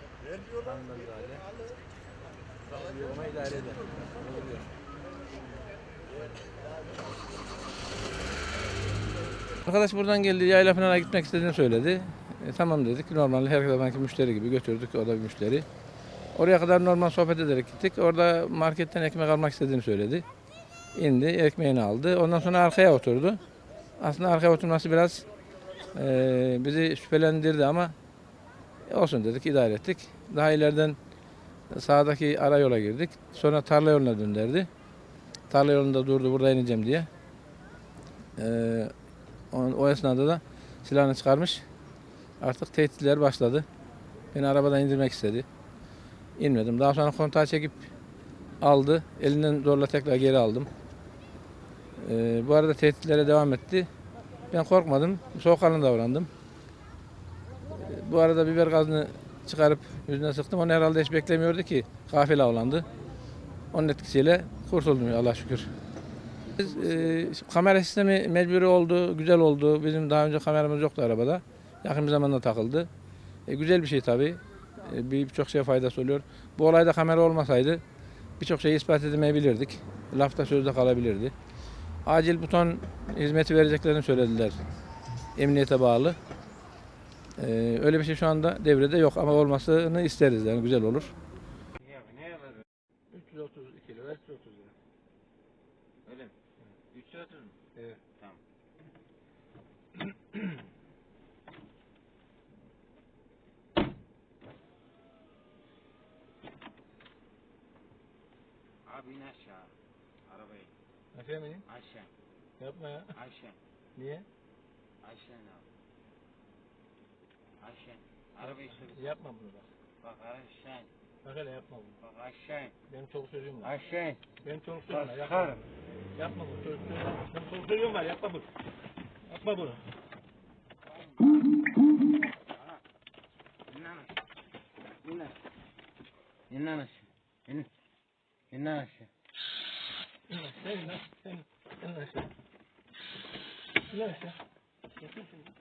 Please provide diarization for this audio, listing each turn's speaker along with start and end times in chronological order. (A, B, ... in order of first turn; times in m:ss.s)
0:00.6-0:01.4 A
0:02.7-0:04.7 A
0:09.6-0:15.6 A
0:16.3-0:20.2 A
0:20.9-0:23.4 A
0:24.0-0:25.2 A
0:25.9-0:27.9 A
0:28.8-0:31.0 A
0:31.7-0:34.7 A
0:35.5-0:37.1 A
0:38.4-0:38.9 A
0:39.5-0:41.6 A
0:42.4-0:43.6 A
0:44.3-0:45.4 A
0:46.4-0:47.9 A
0:48.6-0:50.7 A
0:52.0-0:53.9 A
0:54.5-0:56.3 A
0:57.7-1:02.8 A
1:03.7-1:05.7 A
1:06.5-1:12.9 A
1:13.5-1:17.8 A
1:18.4-1:21.3 A
1:22.0-1:24.6 A
1:25.4-1:26.2 A
1:27.4-1:31.1 A
1:31.8-1:32.6 B
1:33.1-1:34.7 A
1:36.0-1:36.3 B
1:36.9-1:37.5 B
1:48.8-1:49.7 B
1:50.3-1:50.7 B
1:51.1-1:51.6 A
1:51.7-1:52.1 B
1:52.6-1:53.1 A
1:53.1-1:53.6 B
1:54.0-1:54.2 A
1:55.0-1:55.6 B
1:57.6-1:59.0 B
1:58.8-1:59.6 A
2:00.0-2:00.9 B
2:01.2-2:02.0 A
2:02.0-2:02.8 B
2:02.9-2:03.7 A
2:03.6-2:04.3 B
2:04.4-2:05.6 A
2:04.9-2:05.6 B
2:06.2-2:08.5 A
2:09.3-2:09.8 A
2:13.7-2:14.0 B
2:15.0-2:15.3 B
2:16.5-2:17.7 B
2:18.5-2:19.1 B
2:20.3-2:22.2 A
2:23.9-2:24.3 A